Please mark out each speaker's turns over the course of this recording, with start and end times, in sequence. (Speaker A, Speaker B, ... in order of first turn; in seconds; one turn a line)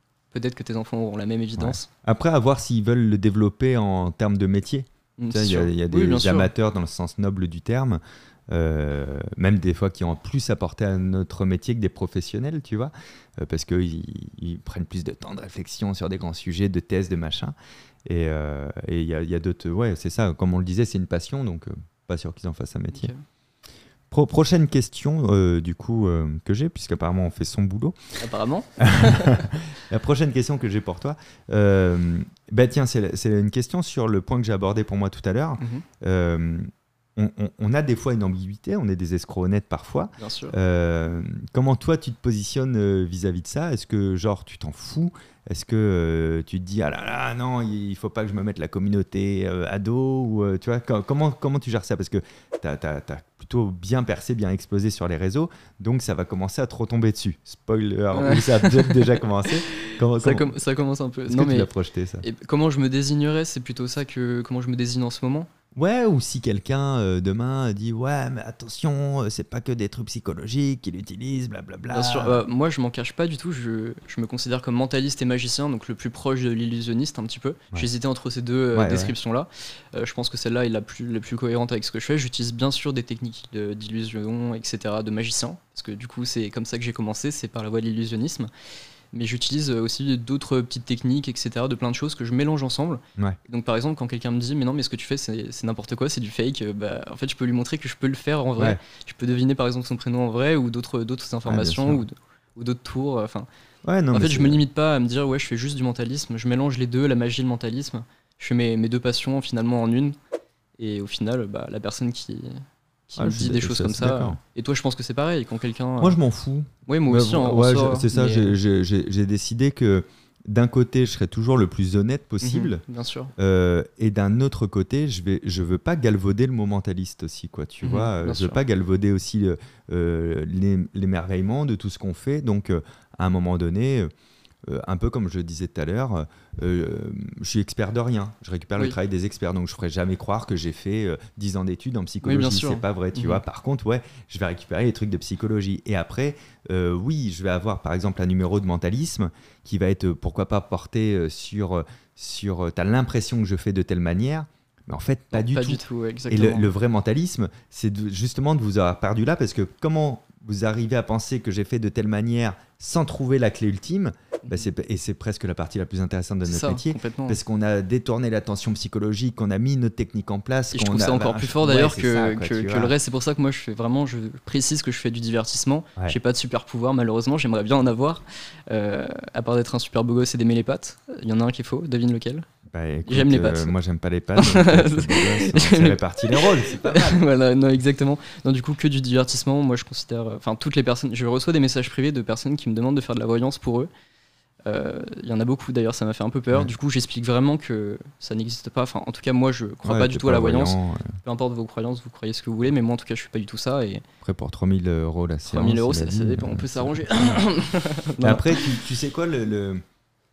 Speaker A: 0.3-1.9
Speaker B: 1.6-17.5
Speaker A: 5.2-6.5
Speaker B: 18.0-23.1
Speaker A: 22.9-23.2
Speaker B: 24.1-27.9
Speaker A: 28.2-29.4
Speaker B: 28.8-60.5
Speaker A: 35.6-35.8
Speaker A: 40.2-40.5
Speaker A: 58.1-61.7
Speaker B: 61.3-62.2
Speaker A: 62.2-65.5
Speaker B: 65.7-72.4
Speaker A: 71.9-88.5
Speaker B: 78.7-79.1
Speaker A: 89.1-103.5
Speaker B: 101.5-102.0
Speaker B: 103.8-104.6
Speaker A: 104.1-110.2
Speaker A: 110.8-116.2
Speaker B: 113.2-114.4
Speaker B: 116.0-122.8
Speaker A: 116.9-118.5
Speaker A: 122.4-123.3
Speaker B: 123.3-134.1
Speaker A: 127.8-128.6
Speaker B: 134.7-172.9
Speaker A: 142.2-143.4
Speaker A: 155.3-156.7
Speaker A: 166.5-167.4
Speaker A: 170.7-182.5
Speaker B: 182.7-187.2
Speaker A: 183.1-183.7
Speaker A: 184.3-193.9
Speaker A: 194.6-204.0
Speaker B: 199.8-201.2
Speaker B: 204.2-207.4
Speaker A: 205.5-208.8
Speaker B: 208.2-209.8